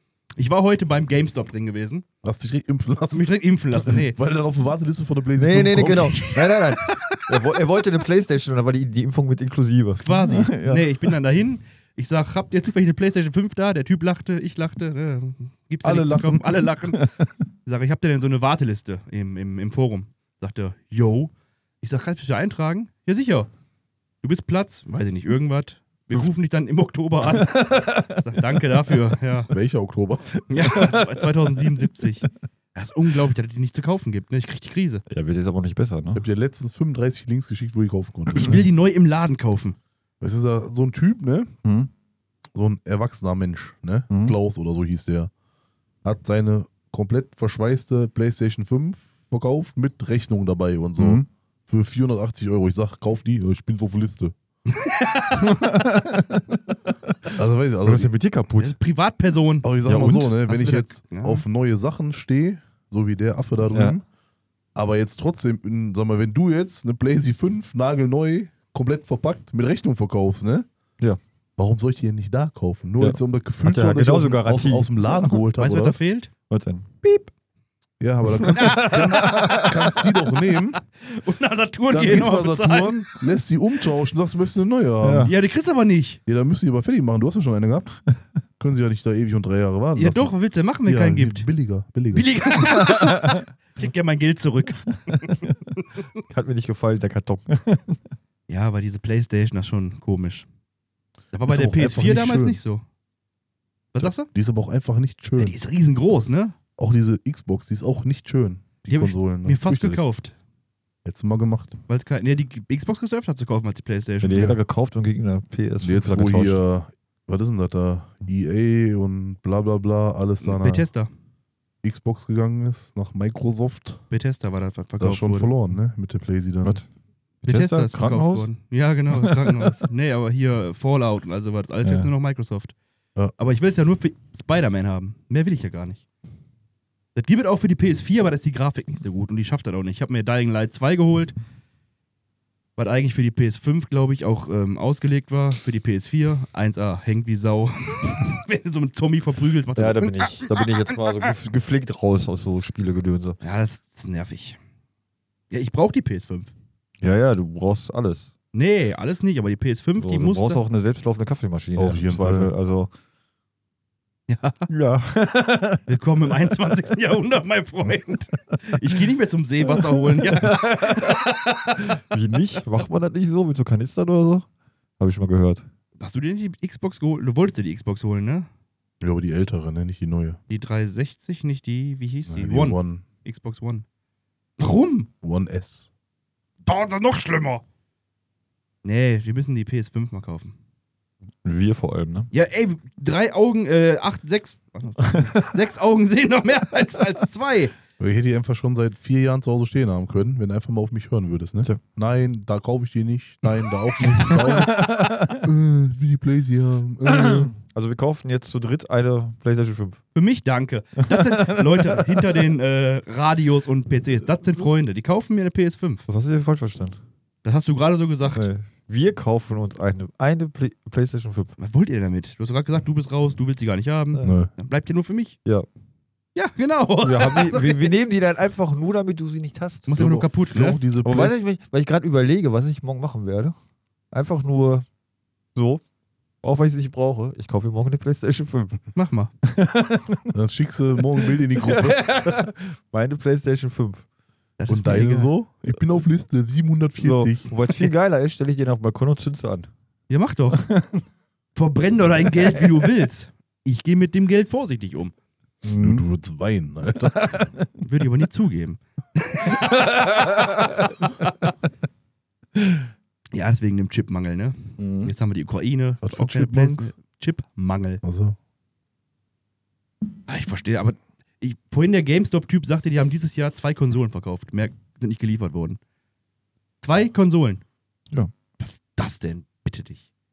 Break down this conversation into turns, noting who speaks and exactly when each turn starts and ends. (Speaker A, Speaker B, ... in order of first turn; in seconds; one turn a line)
Speaker A: 0.4-2.0
Speaker B: 2.2-3.2
Speaker A: 3.1-4.2
Speaker B: 3.8-6.3
Speaker C: 5.4-11.2
Speaker A: 6.2-7.3
Speaker A: 10.0-17.1
Speaker B: 15.8-16.6
Speaker C: 16.6-17.3
Speaker A: 17.6-23.5
Speaker A: 24.2-29.5
Speaker C: 27.3-28.3
Speaker B: 29.5-30.4
Speaker A: 30.5-35.0
Speaker C: 30.5-32.0
Speaker C: 35.1-36.2
Speaker B: 36.1-38.7
Speaker A: 38.4-39.8
Speaker B: 40.2-41.5
Speaker C: 41.6-41.9
Speaker B: 42.5-45.3
Speaker C: 44.1-44.4
Speaker B: 46.0-54.4
Speaker C: 51.0-51.3
Speaker A: 54.7-55.6
Speaker C: 55.4-57.3
Speaker B: 57.4-58.1
Speaker C: 57.8-58.8
Speaker A: 58.6-61.4
Speaker B: 59.6-64.0
Speaker C: 59.9-60.4
Speaker C: 63.7-64.0
Speaker B: 64.8-70.7
Speaker B: 71.6-76.0
Speaker C: 73.0-75.4
Speaker A: 75.5-76.3
Speaker C: 76.5-77.2
Speaker B: 78.0-80.8
Speaker C: 78.4-79.9
Speaker A: 78.5-80.0
Speaker A: 80.9-83.1
Speaker B: 81.9-85.3
Speaker C: 85.0-85.3
Speaker A: 85.2-86.2
Speaker B: 86.3-87.9
Speaker B: 88.6-92.3
Speaker A: 90.0-91.5
Speaker A: 92.1-95.8
Speaker C: 92.8-93.4
Speaker C: 95.3-95.6
Speaker C: 96.3-98.0
Speaker A: 98.5-100.5
Speaker A: 101.3-102.8
Speaker B: 101.5-102.6
Speaker A: 103.9-104.3
Speaker B: 104.0-105.6
Speaker A: 105.4-106.6
Speaker B: 106.8-110.0
Speaker A: 108.9-110.3
Speaker B: 111.0-111.8
Speaker A: 111.9-114.5
Speaker C: 114.2-116.6
Speaker B: 115.8-120.9
Speaker A: 120.4-121.1
Speaker B: 121.8-124.0
Speaker A: 124.1-125.5
Speaker B: 125.0-126.8
Speaker C: 127.4-128.5
Speaker A: 127.5-132.7
Speaker C: 129.1-129.8
Speaker C: 131.8-132.1
Speaker A: 133.4-136.0
Speaker A: 137.2-141.3
Speaker A: 142.8-150.7
Speaker C: 149.8-153.4
Speaker A: 153.4-154.6
Speaker A: 155.5-156.5
Speaker C: 157.0-158.3
Speaker A: 158.5-160.6
Speaker C: 160.0-162.9
Speaker B: 161.8-162.5
Speaker A: 164.3-164.7
Speaker C: 164.7-165.9
Speaker A: 165.9-172.0
Speaker C: 169.7-171.2
Speaker C: 171.8-174.5
Speaker C: 175.0-175.7
Speaker A: 176.0-178.5
Speaker B: 179.0-180.4
Speaker A: 180.5-183.8
Speaker B: 182.3-183.0
Speaker A: 184.6-185.1
Speaker B: 185.2-185.9
Speaker A: 186.7-187.6
Speaker A: 188.8-190.6
Speaker C: 191.4-192.3
Speaker A: 192.3-197.7
Speaker B: 198.0-207.5
Speaker C: 203.9-205.5
Speaker C: 207.1-210.0
Speaker A: 210.2-216.1
Speaker C: 211.0-212.5
Speaker C: 216.1-217.0
Speaker A: 217.4-218.5
Speaker C: 218.3-221.6
Speaker A: 221.6-225.4
Speaker B: 224.2-224.5
Speaker A: 226.3-227.9
Speaker C: 227.0-229.9
Speaker A: 229.9-230.8
Speaker B: 229.9-231.3
Speaker C: 231.0-233.6
Speaker C: 234.1-234.9
Speaker C: 235.6-235.8
Speaker C: 236.4-238.8
Speaker A: 238.9-239.3
Speaker C: 239.4-240.3
Speaker B: 240.3-242.4
Speaker C: 241.2-244.1
Speaker A: 244.6-245.3
Speaker B: 244.7-247.5
Speaker C: 247.0-249.7
Speaker A: 250.1-250.6
Speaker C: 250.5-251.0
Speaker A: 251.6-255.1
Speaker C: 252.4-252.9
Speaker C: 255.6-256.1
Speaker B: 255.8-257.4
Speaker C: 257.2-257.6
Speaker A: 257.8-261.5
Speaker C: 259.6-260.9
Speaker A: 263.3-268.0
Speaker C: 264.8-265.1
Speaker B: 266.0-266.9
Speaker B: 268.0-268.4
Speaker A: 270.3-275.8
Speaker A: 276.8-277.6
Speaker A: 278.6-280.0